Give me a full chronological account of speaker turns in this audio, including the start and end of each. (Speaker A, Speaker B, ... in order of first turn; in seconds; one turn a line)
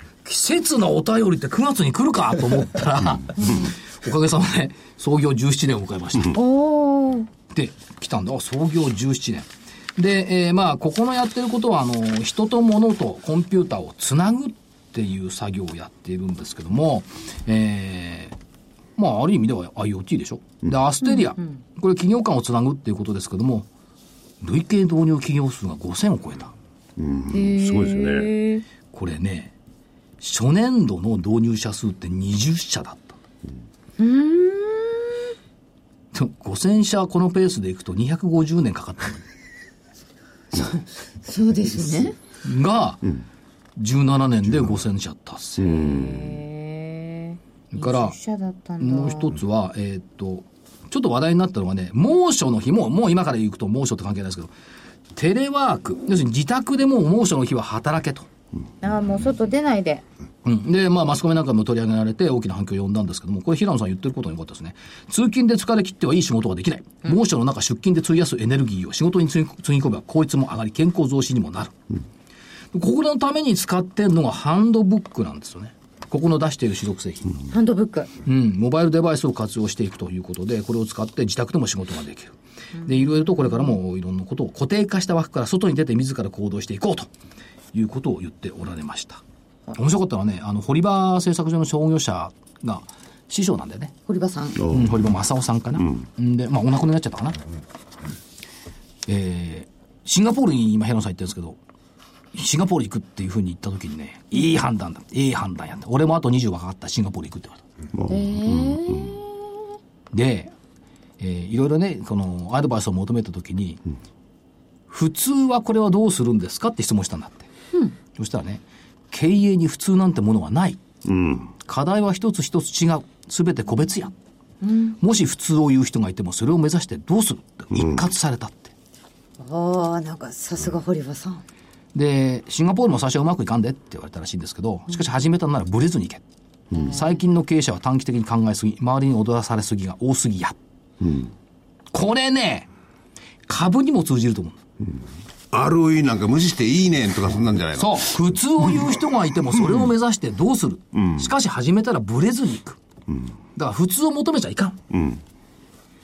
Speaker A: 0.2-6.4
Speaker B: 6.3-7.3
Speaker A: 7.5-18.4
Speaker A: 19.0-23.7
Speaker B: 21.1-21.6
Speaker A: 24.4-26.5
Speaker C: 27.0-28.3
Speaker B: 27.3-28.6
Speaker A: 28.9-29.5
Speaker A: 30.2-33.2
Speaker B: 34.0-35.2
Speaker A: 36.1-39.2
Speaker B: 40.5-42.2
Speaker A: 42.4-43.0
Speaker A: 43.8-46.0
Speaker C: 45.7-46.3
Speaker B: 45.7-49.4
Speaker A: 47.7-48.2
Speaker A: 48.8-54.5
Speaker A: 55.1-58.3
Speaker B: 58.8-60.0
Speaker A: 60.5-71.8
Speaker A: 72.7-77.3
Speaker B: 77.5-78.1
Speaker A: 78.2-87.1
Speaker B: 82.8-83.6
Speaker A: 87.7-89.2
Speaker A: 89.8-93.9
Speaker B: 94.1-94.6
Speaker C: 94.6-95.0
Speaker A: 94.7-97.4
Speaker A: 99.1-101.6
Speaker A: 102.3-107.6
Speaker C: 107.9-109.1
Speaker B: 108.1-109.3
Speaker A: 110.1-110.5
Speaker A: 111.2-113.8
Speaker A: 114.9-117.5
Speaker A: 118.2-120.8
Speaker C: 121.1-121.5
Speaker A: 121.6-124.1
Speaker B: 124.6-125.0
Speaker A: 125.0-128.7
Speaker C: 127.7-128.1
Speaker B: 129.4-131.4
Speaker A: 131.9-136.2
Speaker C: 136.7-137.0
Speaker B: 136.7-137.1
Speaker A: 136.7-140.6
Speaker C: 141.0-141.3
Speaker A: 141.9-142.7
Speaker A: 143.5-144.6
Speaker C: 145.5-148.1
Speaker A: 147.8-152.8
Speaker C: 149.6-149.8
Speaker C: 150.9-151.3
Speaker A: 153.6-154.8
Speaker C: 154.9-155.2